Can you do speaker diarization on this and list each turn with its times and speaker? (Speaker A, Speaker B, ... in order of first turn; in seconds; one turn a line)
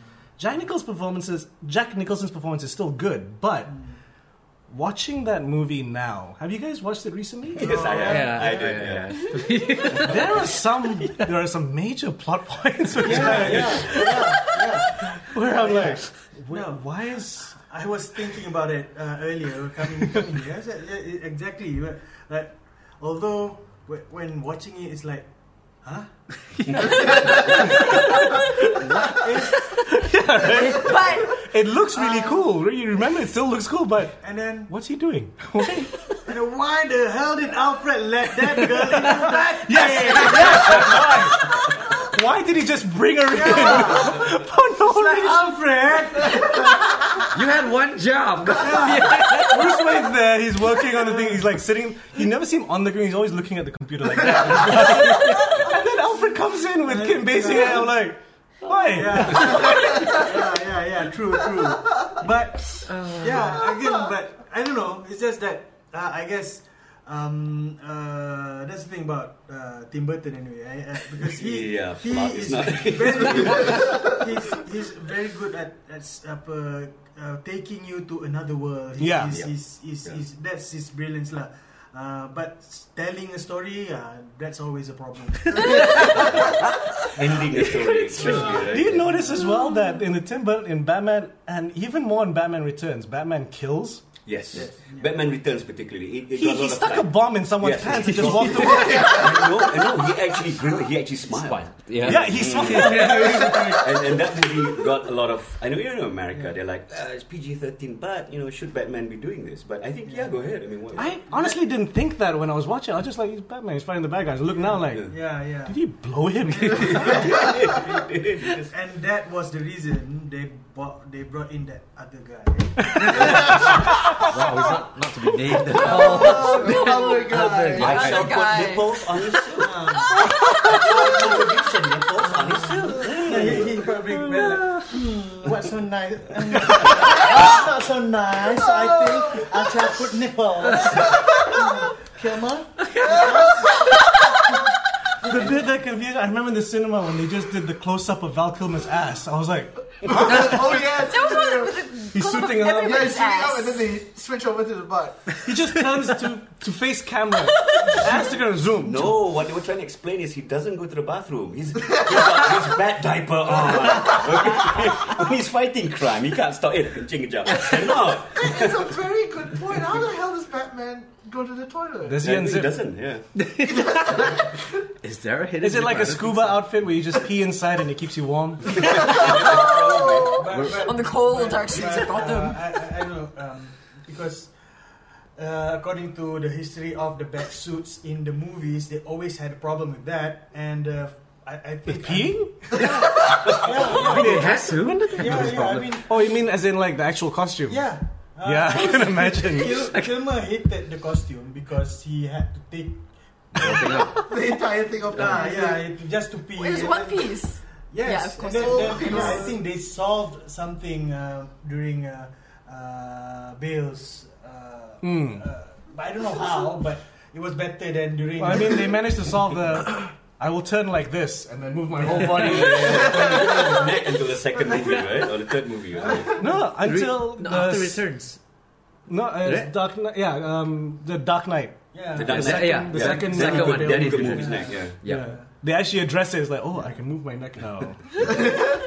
Speaker A: 0.4-3.8
Speaker A: 4.7-7.9
Speaker B: 7.6-9.4
Speaker C: 7.6-8.7
Speaker D: 8.0-10.4
Speaker A: 10.0-14.2
Speaker C: 13.0-16.9
Speaker B: 13.1-14.0
Speaker D: 13.2-13.6
Speaker A: 15.2-17.6
Speaker C: 17.5-25.3
Speaker C: 25.8-26.1
Speaker D: 26.6-29.8
Speaker A: 27.3-36.0
Speaker C: 29.1-29.6
Speaker E: 30.4-31.4
Speaker C: 31.9-32.5
Speaker C: 34.2-34.7
Speaker C: 36.2-41.2
Speaker A: 38.8-45.6
Speaker C: 43.3-46.8
Speaker D: 47.3-49.9
Speaker A: 48.6-60.2
Speaker D: 55.1-55.6
Speaker C: 56.8-57.9
Speaker C: 58.9-86.5
Speaker D: 59.5-59.7
Speaker D: 62.9-63.7
Speaker B: 71.2-73.9
Speaker A: 79.0-79.4
Speaker B: 87.0-89.1
Speaker A: 88.2-94.1
Speaker C: 88.2-88.6
Speaker B: 94.2-111.2
Speaker A: 96.3-99.2
Speaker D: 98.0-99.2
Speaker F: 98.7-99.2
Speaker D: 101.3-103.8
Speaker A: 102.0-104.2
Speaker C: 110.0-111.6
Speaker A: 111.0-117.5
Speaker C: 114.6-115.8
Speaker B: 116.8-118.7
Speaker C: 116.9-117.3
Speaker C: 118.7-123.7
Speaker A: 122.9-124.4
Speaker D: 123.0-128.5
Speaker F: 125.7-128.1
Speaker E: 125.9-129.1
Speaker B: 127.8-129.9
Speaker C: 129.6-130.2
Speaker B: 130.6-133.9
Speaker D: 132.4-133.1
Speaker C: 133.2-143.8
Speaker F: 138.7-139.6
Speaker F: 141.0-141.6
Speaker D: 142.8-144.3
Speaker F: 143.0-143.9
Speaker A: 145.2-150.8
Speaker F: 150.0-151.9
Speaker E: 151.0-153.9
Speaker A: 152.1-153.1
Speaker F: 152.8-155.4
Speaker A: 155.4-159.2
Speaker E: 157.6-158.2
Speaker B: 158.8-169.0
Speaker F: 168.4-172.3
Speaker A: 172.0-172.8
Speaker B: 172.2-173.3
Speaker D: 173.3-174.4
Speaker F: 173.9-174.4
Speaker D: 175.0-176.7
Speaker A: 175.6-178.8
Speaker B: 178.7-180.4
Speaker F: 178.8-180.3
Speaker E: 179.0-182.7
Speaker C: 180.3-184.5
Speaker D: 180.5-180.9
Speaker C: 185.4-196.3
Speaker A: 191.9-197.8
Speaker D: 192.8-195.9
Speaker C: 197.7-204.1
Speaker A: 198.4-199.9
Speaker D: 199.7-200.1
Speaker D: 203.6-204.4
Speaker F: 204.1-205.9
Speaker C: 205.1-219.1
Speaker E: 206.6-209.4
Speaker F: 208.5-209.6
Speaker A: 215.0-215.4
Speaker A: 218.4-223.7
Speaker C: 222.0-222.6
Speaker B: 222.3-226.4
Speaker F: 222.9-223.8
Speaker C: 226.0-226.3
Speaker A: 226.4-228.1
Speaker D: 226.8-228.4
Speaker A: 229.1-234.5
Speaker D: 229.4-229.7
Speaker C: 231.9-232.4
Speaker B: 232.1-235.0
Speaker D: 232.3-235.4
Speaker C: 234.3-235.5
Speaker A: 235.0-238.6